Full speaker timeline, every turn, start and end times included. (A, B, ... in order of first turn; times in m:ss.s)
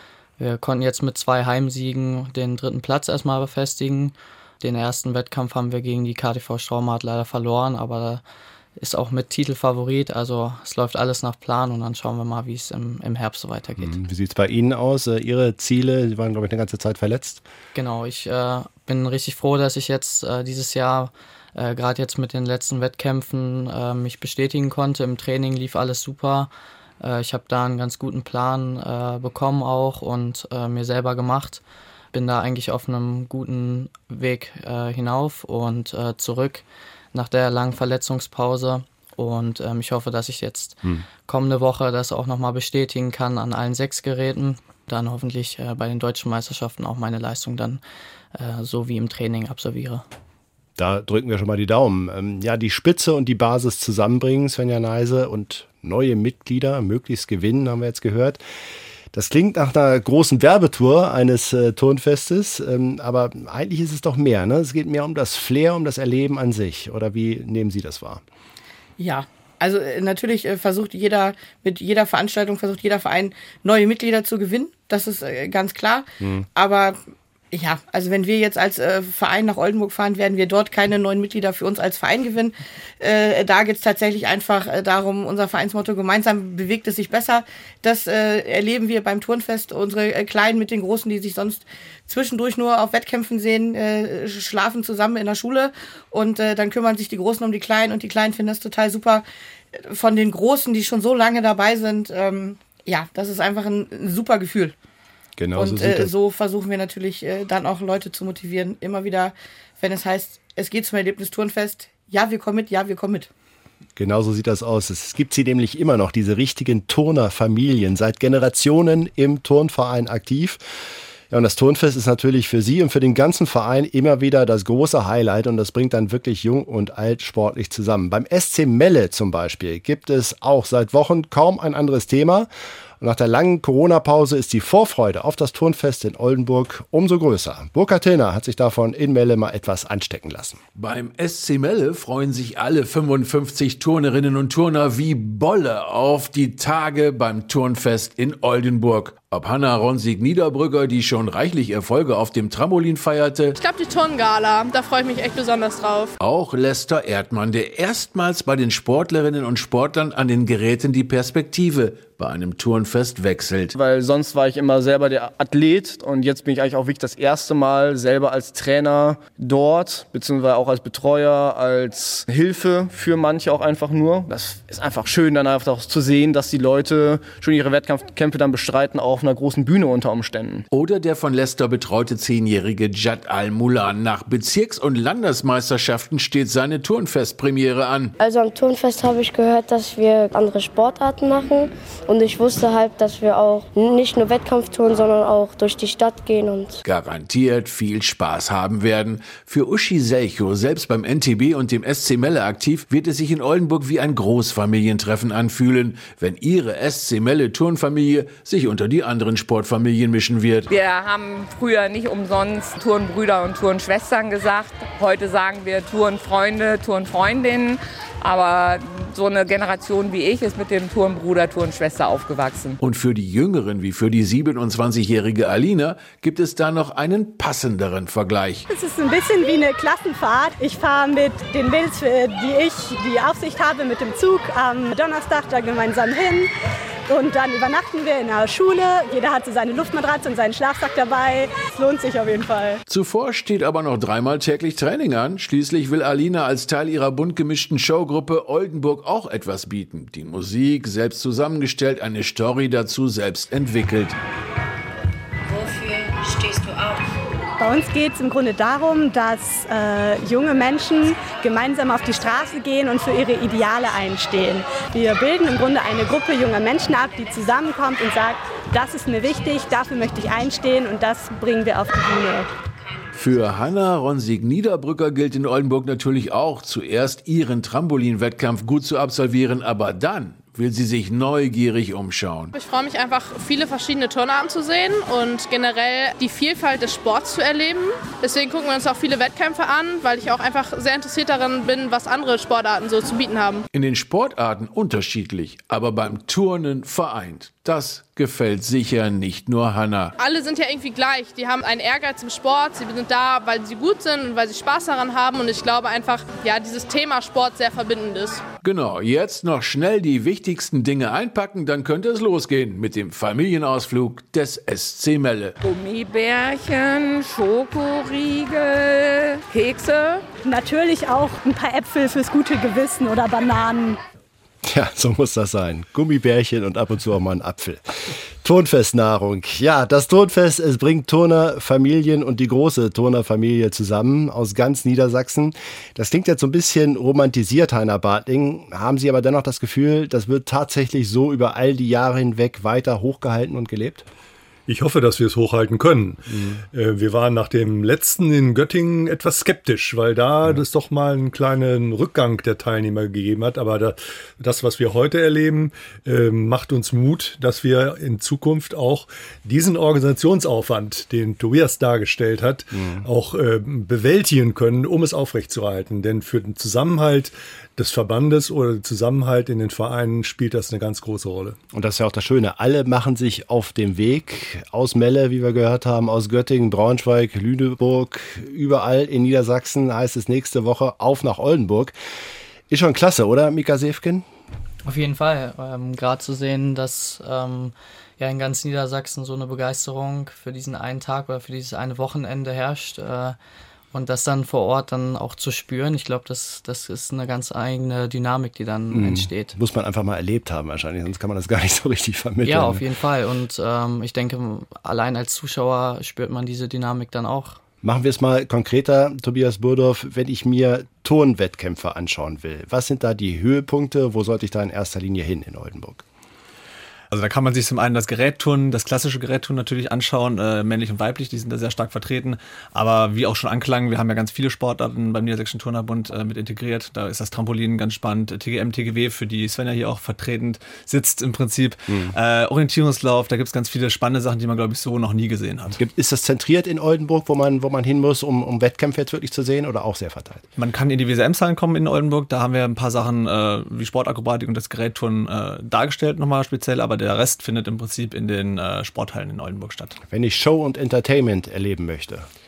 0:00.4-0:08.2 A
0:08.8-0:14.0 A
0:13.8-0:17.4 B
0:17.7-0:26.5 A
0:27.0-0:31.6 A
0:32.1-0:47.8 A
0:48.3-0:50.0 A
0:50.8-0:58.4 B
0:59.1-1:08.2 B
1:09.0-1:17.0 C
1:16.2-1:16.5 B
1:17.5-1:44.7 C
1:45.4-1:46.1 B
1:45.6-1:53.3 C
1:54.0-2:00.6 B
2:01.3-2:12.5 B
2:13.0-2:20.6 B
2:20.8-2:33.6 D
2:33.6-2:36.2 E
2:36.2-2:43.7 D
2:43.7-3:00.6 F
3:00.7-3:08.1 D
3:08.2-3:16.8 G
3:16.8-3:30.7 D
3:30.7-3:42.8 H
3:42.8-3:48.6 D
3:48.7-3:56.5 I
3:57.1-4:02.8 I
4:02.8-4:14.2 D
4:17.6-4:32.5 I
4:33.1-4:42.5 D
4:42.5-4:53.6 E
4:53.7-5:00.1 D
5:00.2-5:08.4 E
5:08.6-5:15.6 D
5:15.6-5:20.3 H
5:20.4-5:24.0 I
5:24.6-5:44.0 B
5:44.7-6:11.6 J
5:46.3-5:46.6 B
6:02.7-6:03.0 B
6:11.7-6:21.9 B
6:22.7-6:24.2 B
6:24.8-6:33.4 A
6:33.9-6:39.5 A
6:38.9-6:42.8 B
6:42.4-6:47.6 A
6:47.8-6:56.0 B
6:57.1-7:15.8 K
7:11.9-7:12.1 B
7:15.8-7:20.4 B
7:20.6-7:30.0 K
7:30.1-7:32.3 B